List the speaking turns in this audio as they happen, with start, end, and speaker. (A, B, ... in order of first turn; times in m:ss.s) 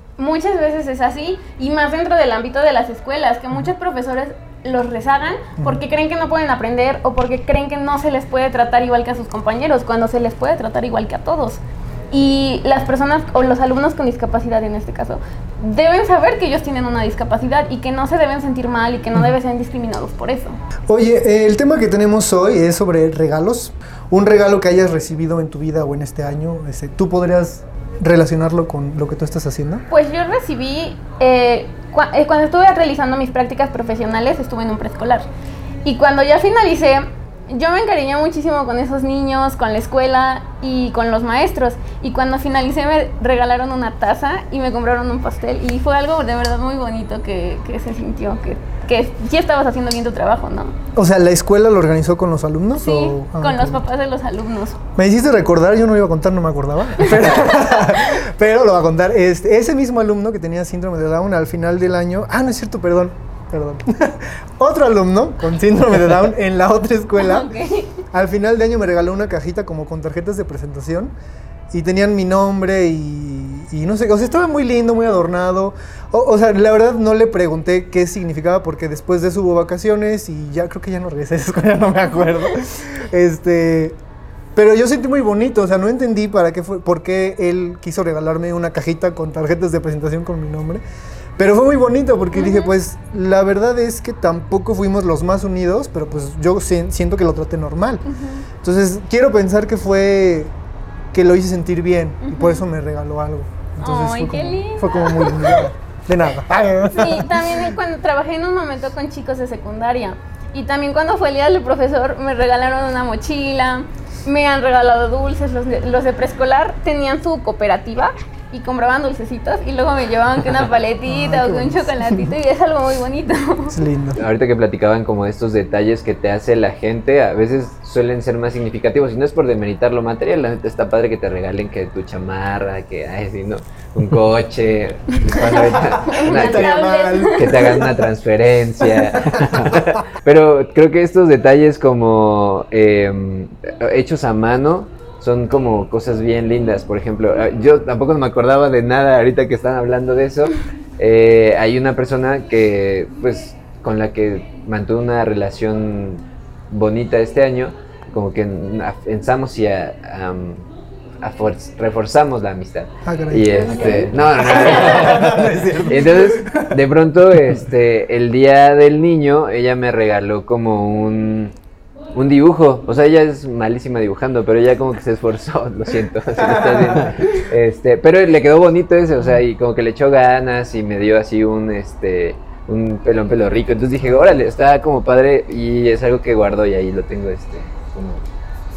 0:00.2-0:11.6 A
0:05.6-0:05.8 B
0:12.1-0:20.6 A
0:20.9-0:29.8 B
0:29.9-0:35.3 A
0:35.8-0:50.8 A
0:51.0-0:53.8 B
0:52.8-0:54.8 A
0:55.0-1:07.5 B
0:57.0-0:57.9 A
1:07.2-1:08.0 A
1:08.1-1:11.1 B
1:11.7-1:24.0 B
1:24.6-1:30.8 B
1:31.4-1:38.1 B
1:32.3-1:32.7 A
1:38.1-1:38.4 A
1:38.6-1:40.5 B
1:41.1-1:47.8 B
1:42.2-1:42.6 A
1:43.8-1:45.7 A
1:47.0-2:03.8 A
2:01.1-2:02.3 B
2:03.7-2:04.2 B
2:04.2-2:16.8 C
2:15.2-2:17.9 A
2:16.2-2:17.9 B
2:17.3-2:40.7 C
2:19.1-2:20.0 B
2:41.2-2:51.5 C
2:43.0-2:46.8 B
2:43.6-2:44.1 A
2:52.1-3:08.2 C
2:56.4-2:57.3 B